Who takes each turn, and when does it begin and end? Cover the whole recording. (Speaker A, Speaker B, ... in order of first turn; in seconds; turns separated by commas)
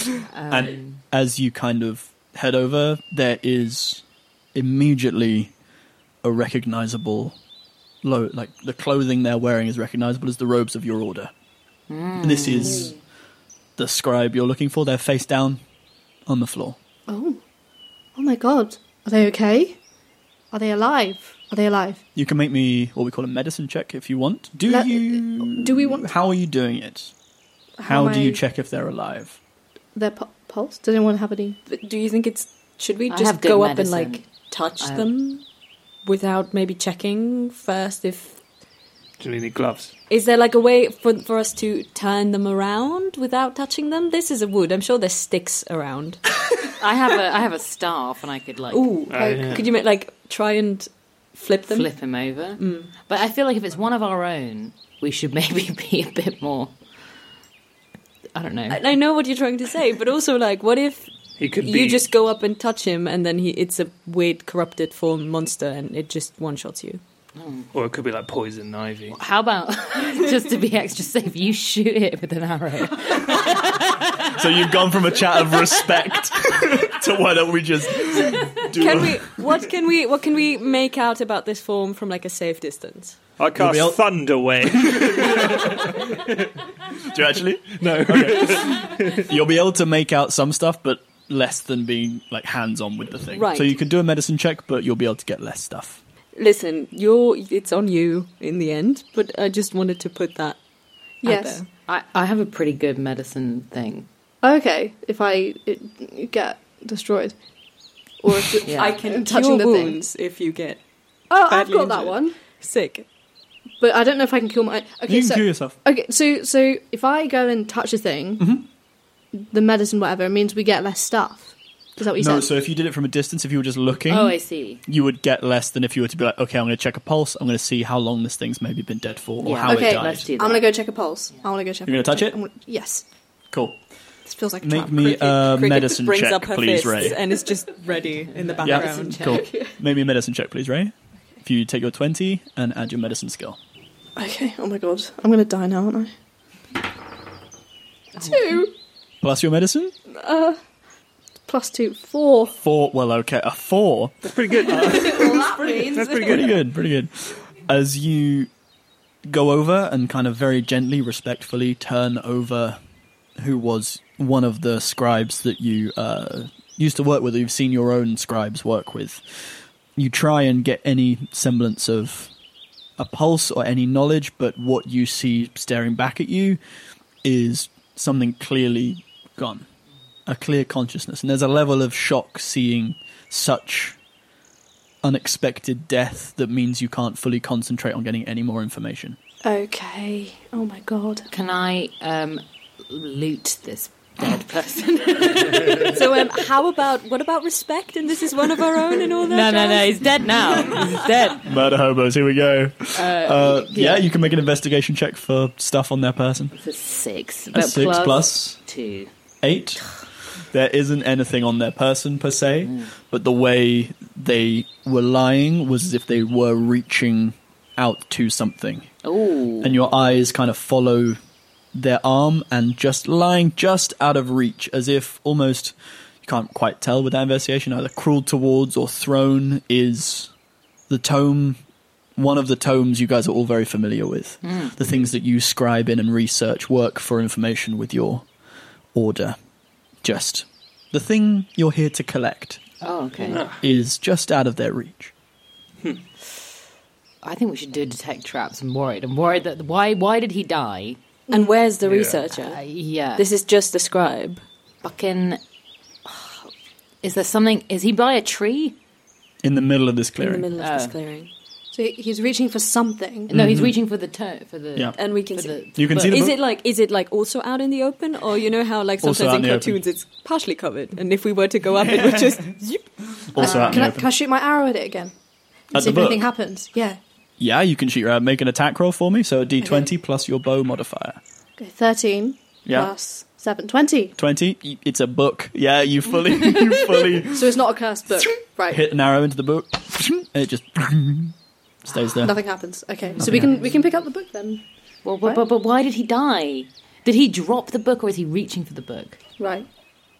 Speaker A: 0.3-1.0, Speaker B: 0.5-4.0, Speaker B: 4.5-5.5, Speaker B: 6.2-7.4, Speaker B: 8.0-11.3, Speaker A: 11.9-12.9, Speaker B: 12.2-12.9, Speaker B: 13.8-15.6, Speaker B: 16.3-16.8, Speaker C: 17.1-17.4, Speaker C: 18.1-19.8, Speaker C: 20.5-22.0, Speaker B: 22.1-27.1, Speaker C: 24.7-26.1, Speaker C: 27.8-28.4, Speaker B: 27.9-29.4, Speaker C: 29.9-31.6, Speaker D: 31.7-35.4, Speaker A: 33.1-35.1, Speaker D: 36.0-38.4, Speaker E: 39.2-39.9, Speaker D: 40.1-46.2, Speaker A: 46.8-48.9, Speaker D: 48.7-51.9, Speaker E: 49.1-49.7, Speaker C: 49.2-49.6, Speaker A: 51.7-56.8, Speaker D: 52.6-52.9, Speaker A: 58.3-58.9, Speaker D: 58.7-67.0, Speaker E: 61.4-62.1, Speaker A: 67.4-67.7, Speaker E: 67.7-69.2, Speaker A: 69.1-74.0, Speaker B: 74.3-79.4, Speaker D: 78.3-83.2, Speaker E: 83.4-86.5, Speaker B: 83.5-84.0, Speaker B: 84.9-85.8, Speaker B: 87.1-96.0, Speaker E: 87.8-89.3, Speaker D: 93.3-93.8, Speaker D: 96.3-100.6, Speaker D: 101.2-101.7, Speaker C: 101.2-101.6, Speaker A: 101.9-104.1, Speaker C: 104.4-107.4, Speaker C: 108.2-110.0, Speaker D: 108.6-110.8, Speaker A: 108.6-109.0, Speaker C: 111.3-112.4, Speaker D: 111.5-113.0, Speaker C: 113.8-118.5, Speaker B: 115.1-115.8, Speaker B: 118.4-118.6, Speaker C: 119.3-122.5, Speaker B: 122.1-130.3, Speaker A: 124.1-124.8, Speaker A: 129.4-130.7, Speaker C: 129.7-133.0, Speaker B: 131.8-132.4, Speaker B: 133.5-133.8, Speaker C: 134.2-135.1, Speaker B: 134.6-137.2, Speaker D: 135.0-139.5, Speaker A: 138.2-139.6, Speaker B: 138.6-143.6, Speaker C: 144.2-146.1, Speaker C: 148.2-148.7, Speaker B: 149.2-149.9, Speaker C: 150.1-150.6, Speaker C: 151.5-152.5, Speaker B: 152.6-154.3, Speaker E: 154.2-156.5, Speaker C: 154.6-156.4, Speaker B: 156.2-158.5, Speaker B: 159.3-162.8, Speaker B: 163.4-169.2, Speaker B: 170.0-172.3, Speaker B: 173.0-176.6, Speaker B: 177.2-179.7, Speaker B: 180.2-184.0, Speaker B: 185.0-189.2, Speaker C: 189.4-191.3, Speaker A: 191.3-196.2, Speaker D: 195.7-200.0, Speaker A: 199.3-201.4, Speaker D: 200.6-201.4, Speaker B: 201.4-206.5, Speaker A: 203.0-204.0, Speaker A: 206.5-209.1, Speaker B: 207.5-208.6, Speaker B: 209.4-209.9, Speaker B: 210.5-218.9, Speaker A: 219.0-219.8, Speaker B: 219.6-221.2, Speaker B: 221.7-225.7, Speaker B: 226.2-230.3, Speaker B: 230.9-231.6, Speaker B: 232.2-238.2, Speaker A: 234.4-234.8, Speaker B: 238.9-239.4, Speaker B: 240.0-242.6, Speaker A: 242.8-243.4, Speaker E: 243.3-243.6, Speaker B: 243.6-245.1, Speaker A: 247.2-251.0, Speaker D: 251.3-252.6, Speaker E: 251.8-252.2, Speaker A: 252.3-253.2, Speaker D: 253.1-254.4, Speaker A: 254.8-255.4, Speaker A: 256.0-256.5, Speaker A: 257.0-258.8, Speaker B: 259.4-260.5, Speaker D: 260.2-261.3, Speaker A: 260.6-261.0, Speaker C: 261.7-263.3, Speaker A: 263.3-266.1, Speaker B: 263.3-263.8, Speaker D: 265.0-273.8, Speaker B: 265.8-266.4, Speaker B: 269.0-269.8, Speaker B: 271.8-272.4, Speaker B: 273.2-274.1, Speaker C: 273.4-275.1, Speaker C: 275.7-277.0, Speaker B: 275.7-276.2, Speaker B: 277.4-281.2, Speaker C: 281.6-284.1, Speaker B: 282.6-282.9, Speaker B: 284.2-287.6, Speaker C: 287.2-288.8, Speaker B: 288.1-291.3, Speaker B: 291.9-292.3, Speaker C: 292.2-294.6, Speaker A: 293.1-293.6, Speaker B: 293.2-293.5, Speaker A: 295.0-299.2, Speaker C: 299.4-299.7